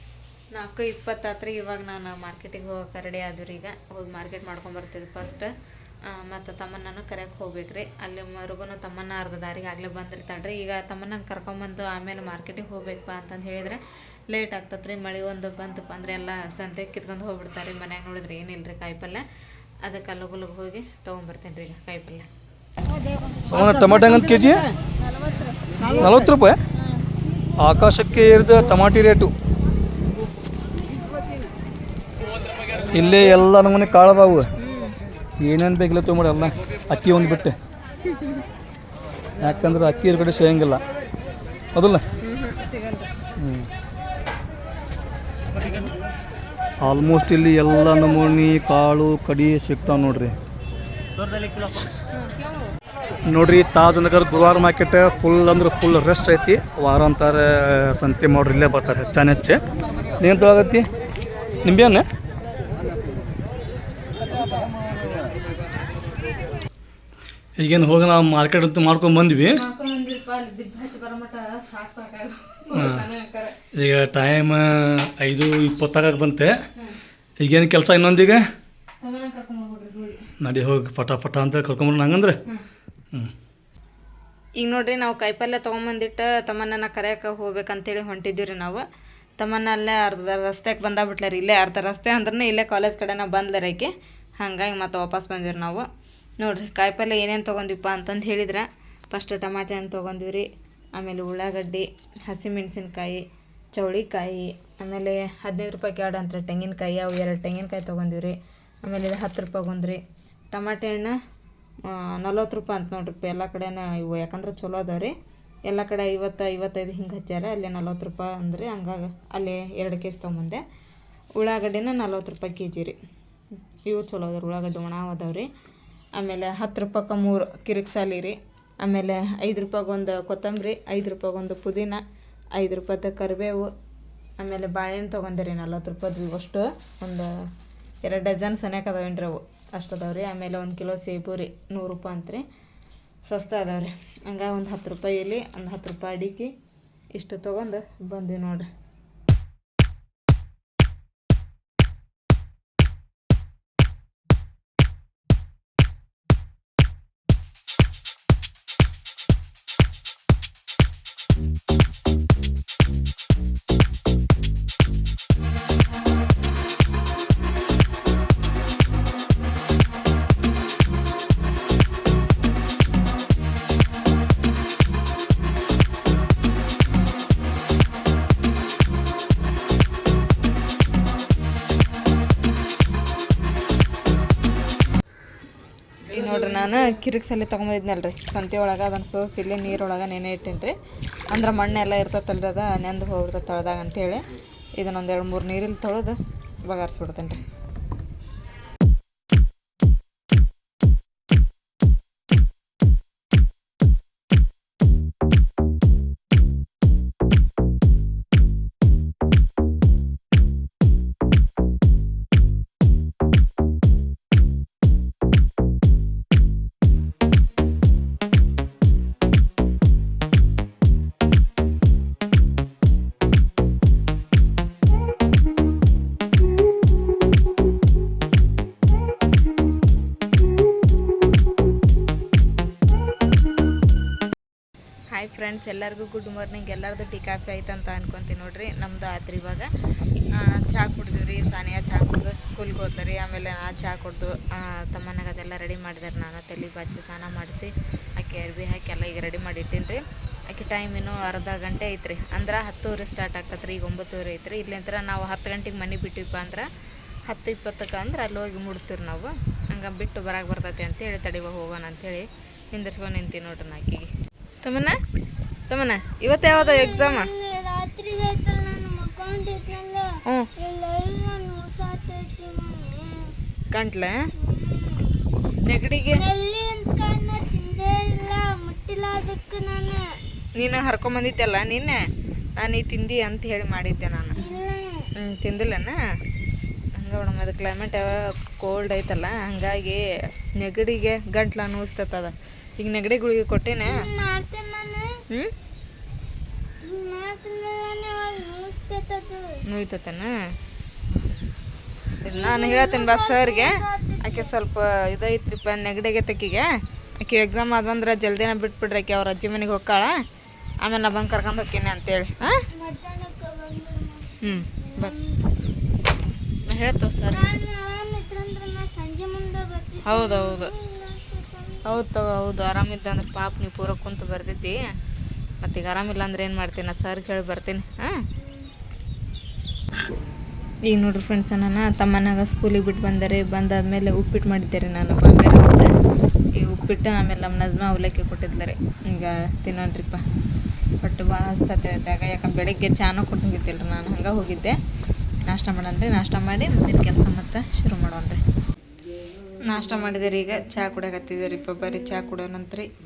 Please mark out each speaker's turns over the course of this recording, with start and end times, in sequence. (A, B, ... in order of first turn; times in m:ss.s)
0:00.5-0:05.5 A
0:06.0-0:19.2 A
0:19.8-0:22.3 A
0:23.4-0:24.6 B
0:25.8-0:26.6 B
0:27.6-0:29.3 B
0:32.9-0:34.5 B
0:34.6-0:34.9 A
0:35.4-0:37.5 B
0:39.4-0:40.8 B
0:41.7-0:42.0 B
0:42.2-0:43.1 A
0:43.4-0:43.7 B
0:46.8-0:50.3 B
0:53.3-0:59.6 B
1:00.2-1:00.8 B
1:01.6-1:02.0 B
1:07.6-1:09.6 B
1:09.5-1:13.6 A
1:12.7-1:13.0 B
1:13.7-1:16.5 B
1:17.4-1:18.4 B
1:19.0-1:20.3 A
1:20.4-1:22.4 B
1:24.6-1:28.8 A
1:29.4-1:35.9 A
1:36.4-1:51.2 A
1:51.8-1:55.1 A
1:55.7-2:00.6 A
2:01.4-2:03.0 A
2:03.8-2:05.5 A
2:06.2-2:12.0 A
2:12.6-2:13.7 A
2:14.4-2:17.3 A
2:18.0-2:22.4 A
2:23.3-2:26.5 A
2:27.1-2:28.7 A
3:06.1-3:10.7 A
3:11.3-3:14.2 A
3:14.8-3:17.4 A
3:55.1-3:59.7 A
4:00.3-4:16.7 A
4:17.3-4:24.1 A
4:24.6-4:25.0 A
4:25.7-4:27.3 A
4:26.4-4:33.4 C
4:33.7-4:34.3 A
4:34.4-4:35.2 C
4:35.6-4:36.2 A
4:36.1-4:40.2 C
4:40.6-4:42.0 A
4:42.6-4:44.4 A
4:44.4-4:45.1 C
4:45.2-4:46.0 A
4:47.0-4:50.0 A
4:50.6-4:54.0 A
4:53.8-4:55.2 C
4:56.8-4:59.6 C
4:59.6-5:00.3 A
5:02.2-5:10.2 A
5:02.3-5:04.5 C
5:10.8-5:12.6 A
5:12.7-5:15.5 C
5:14.4-5:15.2 A
5:16.6-5:17.6 A
5:17.3-5:22.0 C
5:20.0-5:20.8 A
5:21.8-5:24.8 A
5:25.6-5:28.2 A
5:28.4-5:28.7 C
5:30.8-5:35.9 A
5:36.6-5:40.2 A
5:41.0-5:44.8 A
5:45.4-5:48.4 A
5:49.6-5:52.9 A